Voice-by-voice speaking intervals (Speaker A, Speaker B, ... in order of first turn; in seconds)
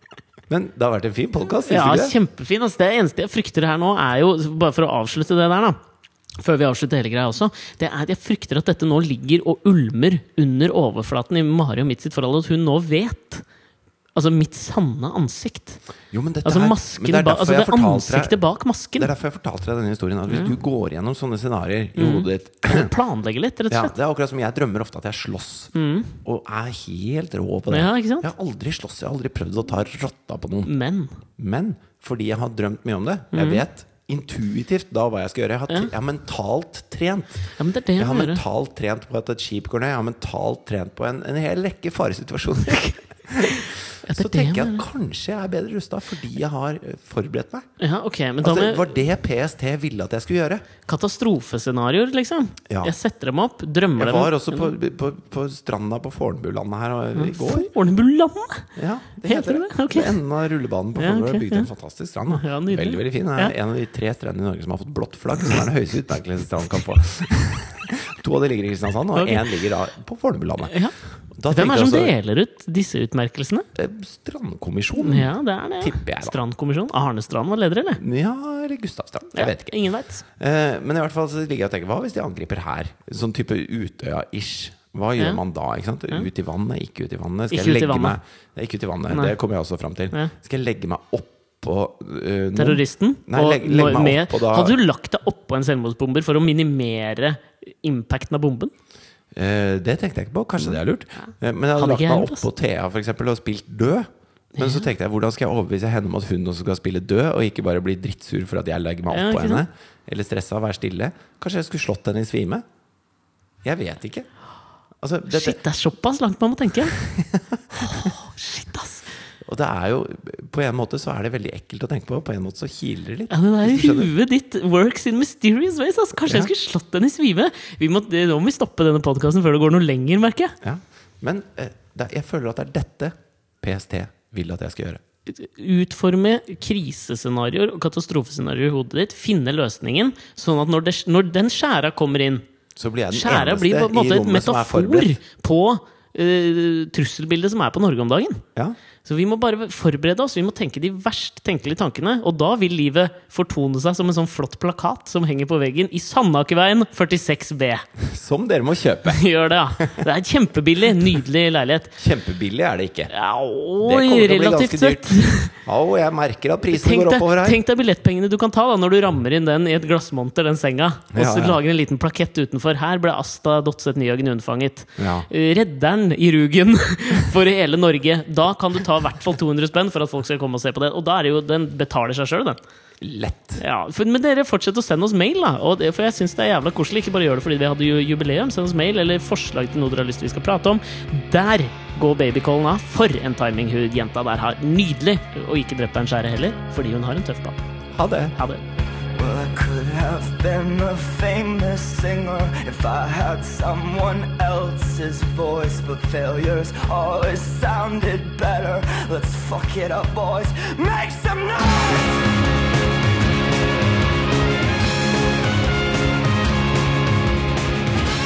Speaker A: 0.5-2.1, 16.1-18.4, 19.0-22.9, 23.7-25.7, 26.2-30.7, 31.4-47.7, 48.4-50.7, 54.0-57.7, 58.8-70.8, 71.4-72.2, 73.8-76.4, 78.0-94.8, 99.3-112.6, 113.6-114.3, 115.0-115.6, 116.9-118.1, 119.4-124.1, 126.2-126.5, 130.6-135.0, 142.8-145.2, 158.0-159.2, 162.0-163.1, 163.8-167.6, 171.1-171.6, 175.0-175.3, 183.0-183.6, 197.9-198.4
Speaker B: 1.6-5.8, 6.4-13.4, 14.2-15.8, 16.4-19.1, 20.3-20.6, 22.0-23.9, 25.7-26.1, 27.7-28.3, 30.7-31.2, 33.3-33.6, 37.6-38.4, 42.7-44.9, 47.8-49.1, 50.9-54.7, 57.1-58.7, 59.2-60.1, 61.0-61.7, 62.3-63.5, 69.2-69.5, 70.7-71.0, 71.5-73.7, 75.0-78.0, 79.3-80.2, 87.5-88.2, 89.1-89.3, 92.5-98.7, 101.8-102.4, 104.6-104.8, 109.1-109.6, 115.3-117.0, 117.7-119.1, 123.3-130.6, 135.3-142.4, 143.1-148.4, 149.0-157.9, 159.1-162.0, 163.1-165.6, 166.7-182.6, 183.6-197.6, 198.4-198.6
Speaker C: 199.2-212.3